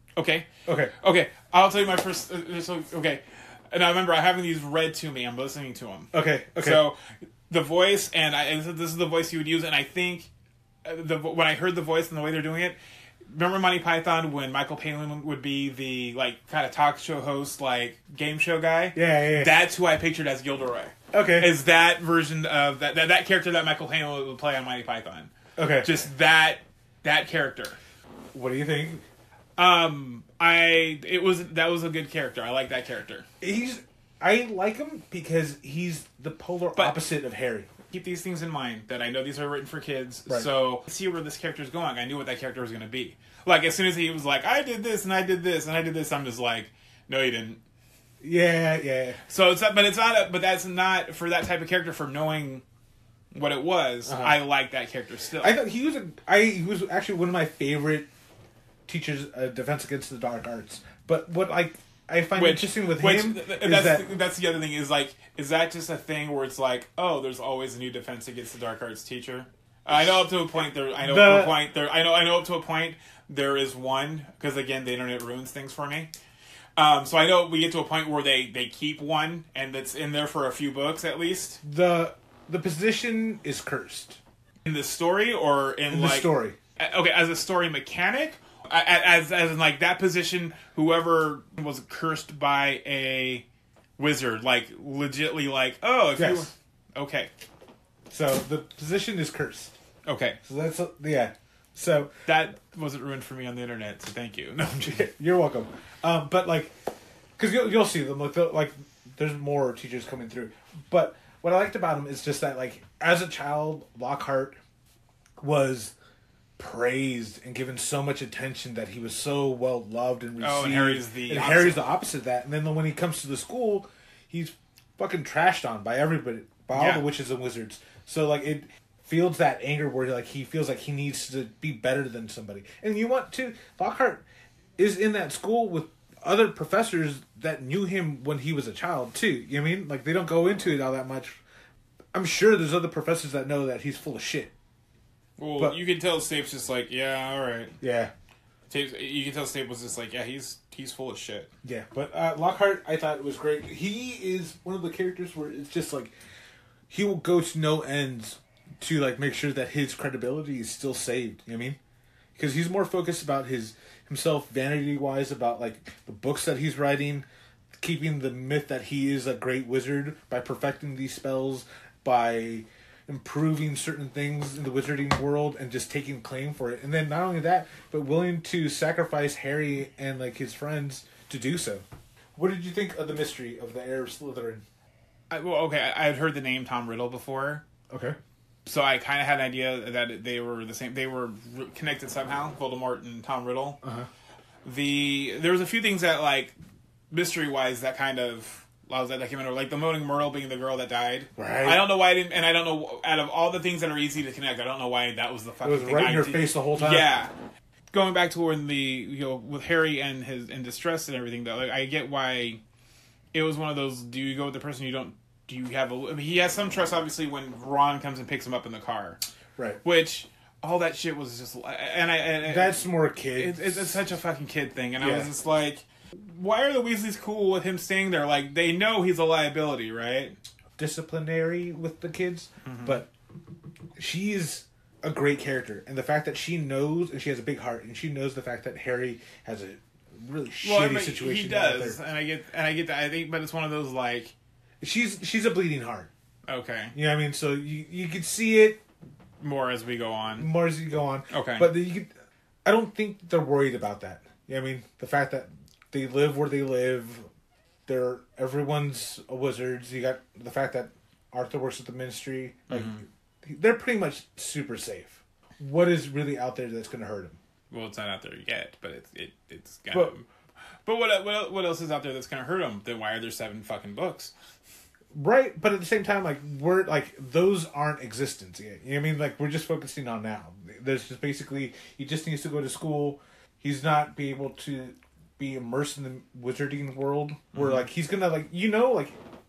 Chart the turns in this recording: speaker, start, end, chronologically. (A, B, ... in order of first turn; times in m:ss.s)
0:00.2-0:10.3 A
0:00.6-0:00.9 B
0:06.1-0:06.8 B
0:10.8-0:27.8 A
0:18.9-0:19.5 B
0:21.1-0:21.5 B
0:25.6-0:25.9 B
0:28.3-0:29.0 B
0:29.6-0:33.3 A
0:33.4-0:37.7 B
0:36.7-0:37.0 A
0:37.9-0:47.6 A
0:48.2-0:49.2 B
0:49.3-0:52.6 A
0:53.3-0:55.6 A
0:54.0-0:54.4 B
0:55.4-0:58.1 B
0:58.9-1:04.0 B
1:02.4-1:16.1 A
1:11.0-1:11.6 B
1:16.8-1:21.6 A
1:21.6-1:24.2 B
1:24.6-1:33.4 A
1:25.9-1:26.6 B
1:34.0-1:37.3 A
1:36.2-1:36.5 B
1:38.1-1:39.8 B
1:40.0-1:40.4 A
1:40.4-1:42.1 B
1:42.2-1:45.1 A
1:44.8-1:46.7 B
1:47.4-1:54.6 B
1:55.4-1:55.9 B
1:56.6-2:14.2 B
2:00.4-2:01.8 A
2:06.7-2:07.0 A
2:14.8-2:21.4 B
2:22.1-2:24.5 B
2:25.4-2:27.7 A
2:27.8-2:28.1 B
2:28.7-2:31.5 A
2:31.6-2:36.1 B
2:36.9-2:41.8 B
2:42.4-2:47.2 B
2:47.8-3:01.8 B
3:02.4-3:04.6 B
3:05.3-3:07.6 A
3:07.9-3:08.2 B
3:08.6-3:13.8 A
3:13.8-3:14.1 B
3:14.6-3:16.5 A
3:17.1-3:27.3 A
3:21.4-3:21.9 B
3:25.6-3:27.1 B
3:27.9-3:32.6 A
3:33.3-3:39.2 A
3:39.8-3:42.8 A
3:42.4-3:44.0 B
3:43.3-3:50.4 A
3:45.0-3:45.3 B
3:50.8-3:53.1 B
3:52.6-3:53.0 A
3:54.0-4:02.0 B
4:00.6-4:04.3 A
4:04.8-4:06.1 B
4:06.5-4:07.0 A
4:06.9-4:08.8 B
4:09.4-4:10.5 A
4:10.4-4:12.1 B
4:11.3-4:11.7 A
4:12.6-4:17.3 B
4:17.9-4:27.4 B
4:22.7-4:23.0 A
4:27.7-4:30.2 A
4:30.8-4:34.3 A
4:35.1-4:49.2 B
4:47.5-4:47.8 A